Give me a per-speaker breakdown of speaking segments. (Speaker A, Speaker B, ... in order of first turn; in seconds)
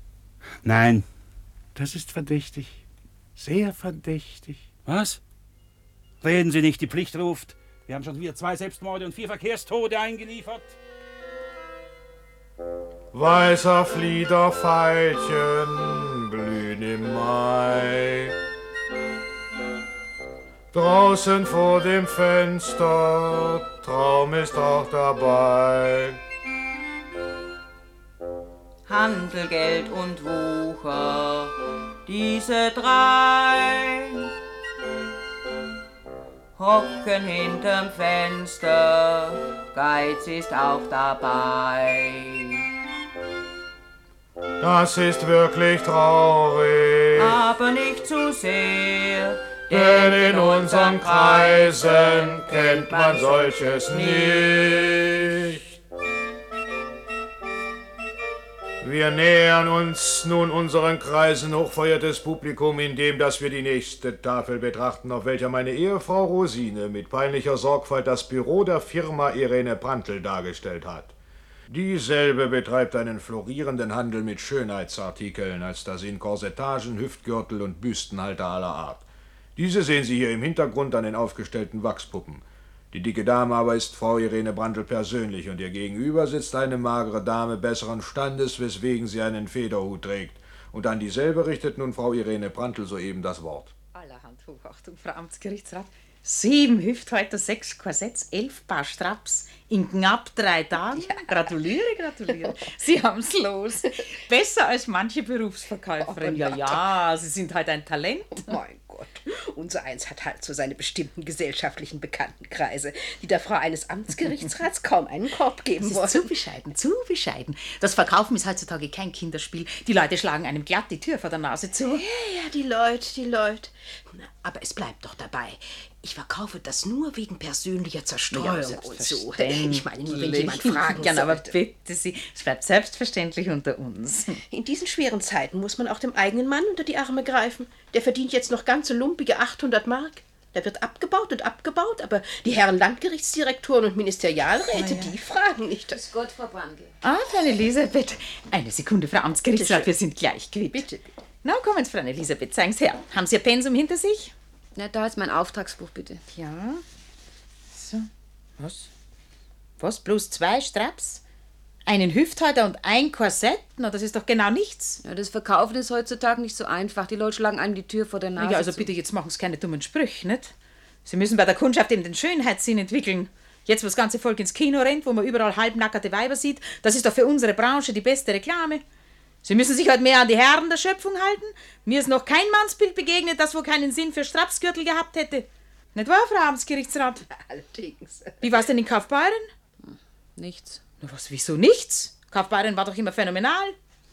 Speaker A: 0.6-1.1, 4.9-5.2, 6.2-10.8
Speaker B: 1.8-2.8, 3.4-4.7
Speaker C: 13.1-18.4, 20.7-26.2, 44.6-47.4, 49.7-55.6, 58.8-71.1, 71.7-93.7
Speaker D: 28.9-34.3, 36.6-42.6, 47.1-54.9
Speaker E: 93.9-108.5, 115.8-122.0, 128.3-134.4, 144.7-145.2, 147.0-150.9, 151.4-154.3, 156.3-156.8, 157.7-158.1, 158.6-158.9, 159.8-161.2, 161.9-165.0, 168.4-170.5, 171.1-178.8, 179.4-187.2, 188.4-189.5, 191.0-193.8
Speaker F: 100.9-101.5, 106.0-106.8, 108.3-116.7, 121.8-131.6, 134.5-146.0, 149.5-149.9, 150.7-151.1, 187.3-188.6
Speaker G: 128.6-129.0, 145.9-146.9, 154.8-156.2, 165.0-168.9, 189.8-190.8